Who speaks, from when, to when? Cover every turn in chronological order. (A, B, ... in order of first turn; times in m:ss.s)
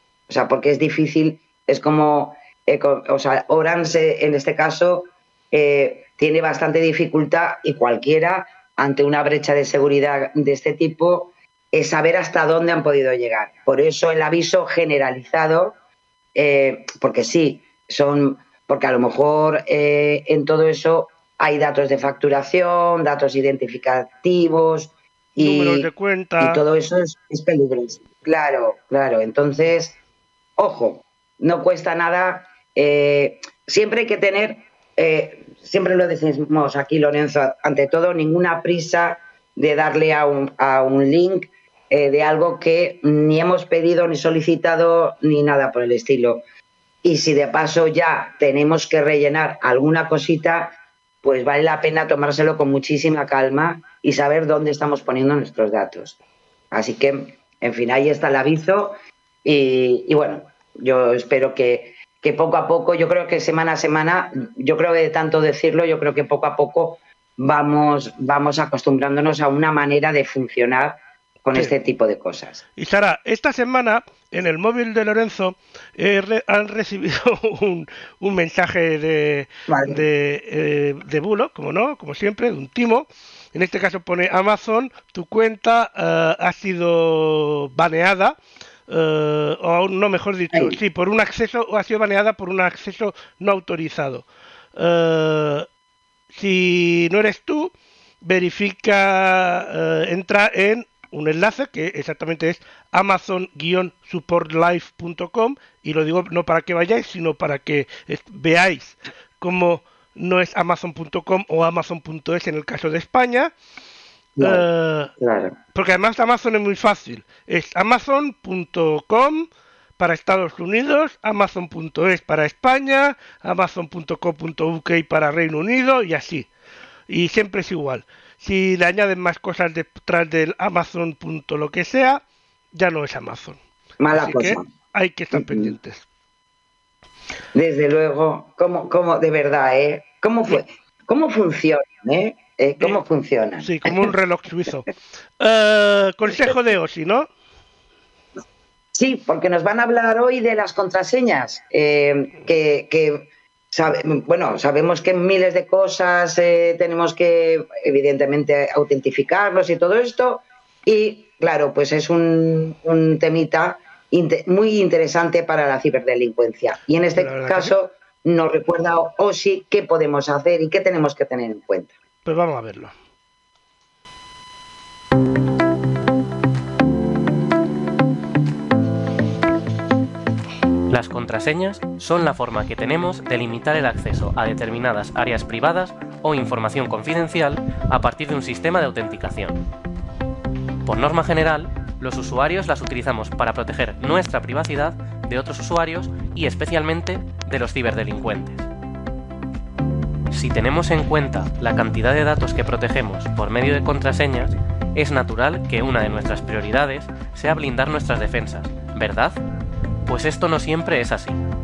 0:00.3-0:15.8 A
0:16.3-0:25.9 A
0:25.4-0:26.6 B
0:26.4-0:30.0 A
0:30.6-0:46.4 A
0:47.0-0:56.2 A
0:56.7-1:12.6 A
1:12.8-1:28.4 B
1:19.7-1:20.0 A
1:28.9-1:34.2 B
1:30.5-1:30.8 A
1:34.8-1:35.7 B
1:36.3-1:53.5 B
1:54.4-1:54.6 A
1:54.4-1:55.1 B
1:55.2-1:55.6 A
1:55.7-2:06.5 B
2:07.1-2:12.2 B
2:12.7-2:13.6 B
2:14.0-2:14.7 A
2:14.1-2:16.0 B
2:15.3-2:15.7 A
2:17.5-2:24.1 A
2:23.6-2:24.9 B
2:25.4-2:27.3 B
2:28.9-2:51.9 A
2:47.1-2:47.7 B
2:52.2-2:52.9 B
3:00.9-3:09.6 C
3:10.8-3:18.7 C
3:20.3-3:29.4 C
3:30.0-3:31.4 C